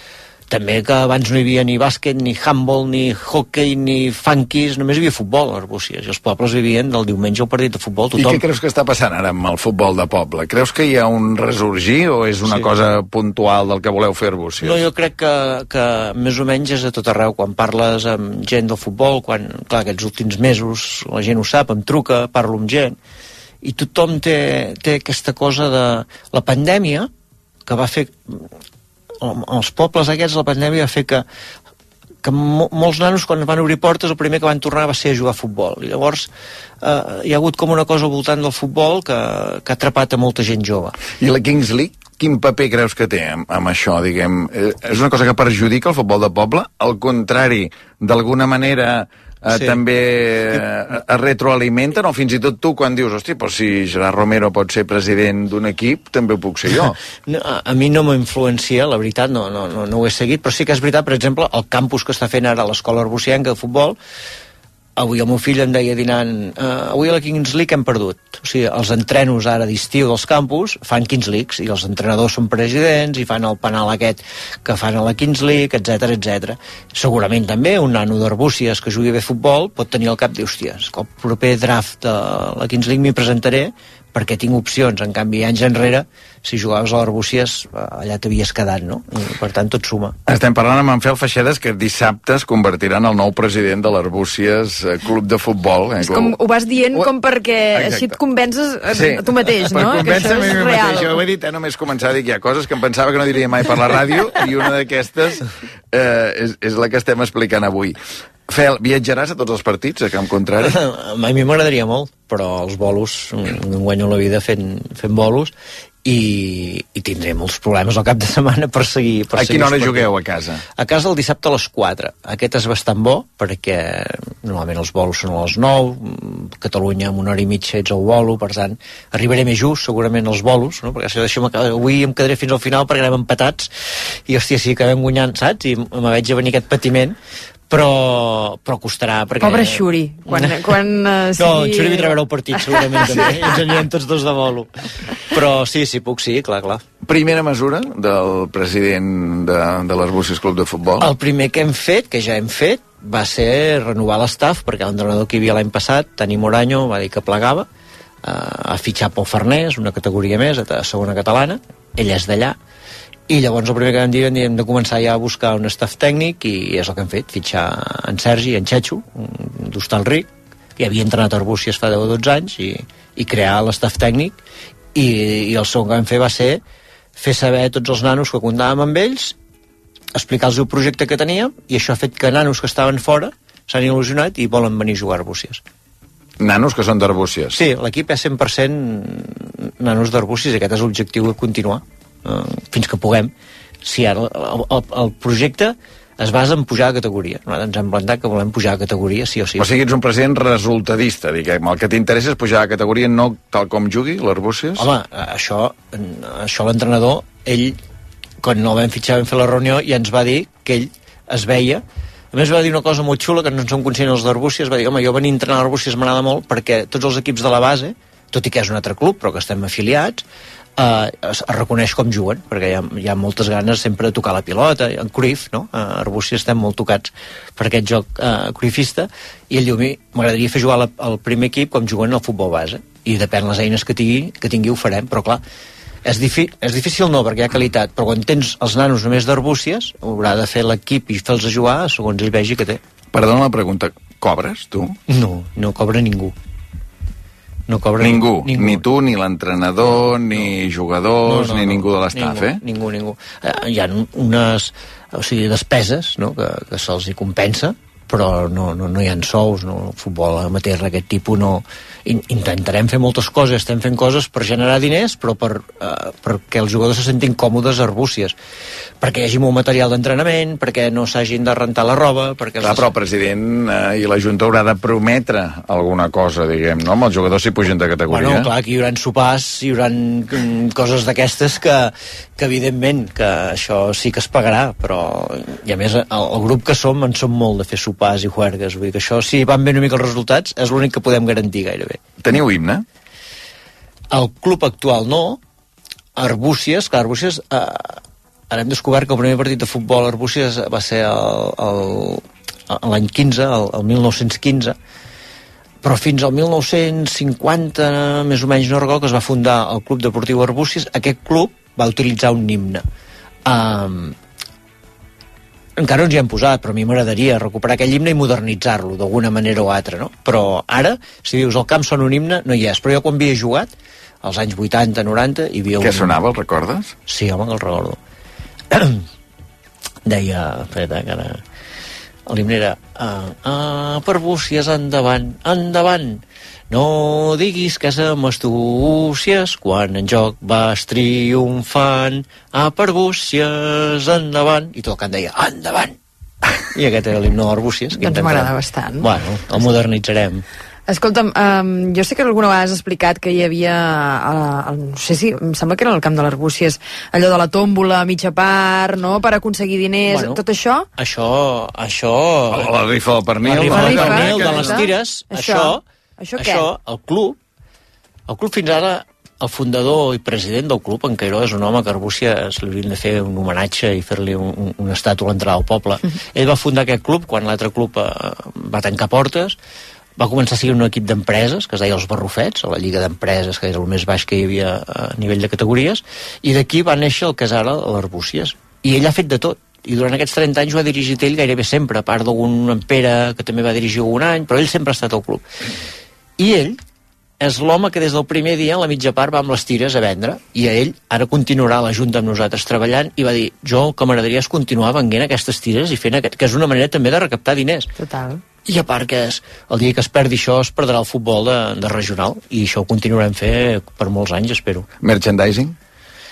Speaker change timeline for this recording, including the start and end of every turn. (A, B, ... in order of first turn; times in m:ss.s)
0:00.5-0:08.4 A
0:08.2-0:14.8 B
0:14.6-0:23.0 A
0:23.6-0:27.1 A
0:27.7-0:28.5 A
0:29.2-0:31.2 A
0:32.2-0:36.3 A
0:36.8-0:41.0 A
0:41.2-0:57.0 B
0:49.5-0:49.8 A
0:57.3-1:04.0 A
1:05.0-1:30.2 A
1:30.3-1:36.4 B
1:36.0-1:41.2 C
1:37.7-1:38.2 B
1:38.9-1:48.0 B
1:48.5-1:50.8 B
1:50.6-1:55.5 A
1:56.0-2:00.1 A
1:59.4-2:00.6 B
2:00.7-2:13.7 A
2:14.3-2:17.2 A
2:17.7-2:20.6 A
2:19.4-2:23.4 C
2:21.4-2:24.7 A
2:25.3-2:26.8 A
2:27.0-2:31.1 B
2:31.0-2:37.7 A
2:38.2-2:42.6 A
2:43.3-2:54.4 A
2:55.0-2:56.6 A
2:57.2-2:59.4 A
3:00.2-3:05.6 A
3:06.4-3:07.6 B
3:07.5-3:13.3 A
3:13.8-3:19.7 A
3:19.6-3:24.9 B
3:24.8-3:27.8 A
3:28.4-3:40.2 A
3:40.8-3:55.4 A
3:56.0-4:02.8 A
4:03.1-4:05.0 B
4:05.1-4:06.4 A
4:07.7-4:08.8 A
4:08.0-4:12.6 B
4:11.2-4:28.4 A
4:29.0-4:32.9 A
4:32.6-4:38.5 B
4:38.1-4:52.0 A
4:52.2-4:52.8 B
4:54.1-4:55.4 A
4:56.2-5:04.8 A
5:05.8-5:12.8 A
5:13.5-5:14.2 A
5:15.8-5:26.2 A
5:25.8-5:26.9 B
5:27.1-5:28.0 A
5:28.7-5:29.0 A
5:30.1-5:31.4 A
5:32.3-5:46.0 A
5:46.7-5:50.4 A
5:48.0-5:49.1 C
5:50.9-6:00.9 C
6:00.1-6:00.4 A
6:01.0-6:02.8 A
6:02.5-6:04.9 B
6:03.4-6:05.8 A
6:03.7-6:06.7 C
6:06.4-6:07.4 A
6:08.3-6:19.6 A
6:20.2-6:35.4 A
6:36.4-6:36.8 A
6:37.4-6:47.9 A
6:48.0-6:48.4 C
6:48.6-6:54.9 A
6:55.0-6:55.8 B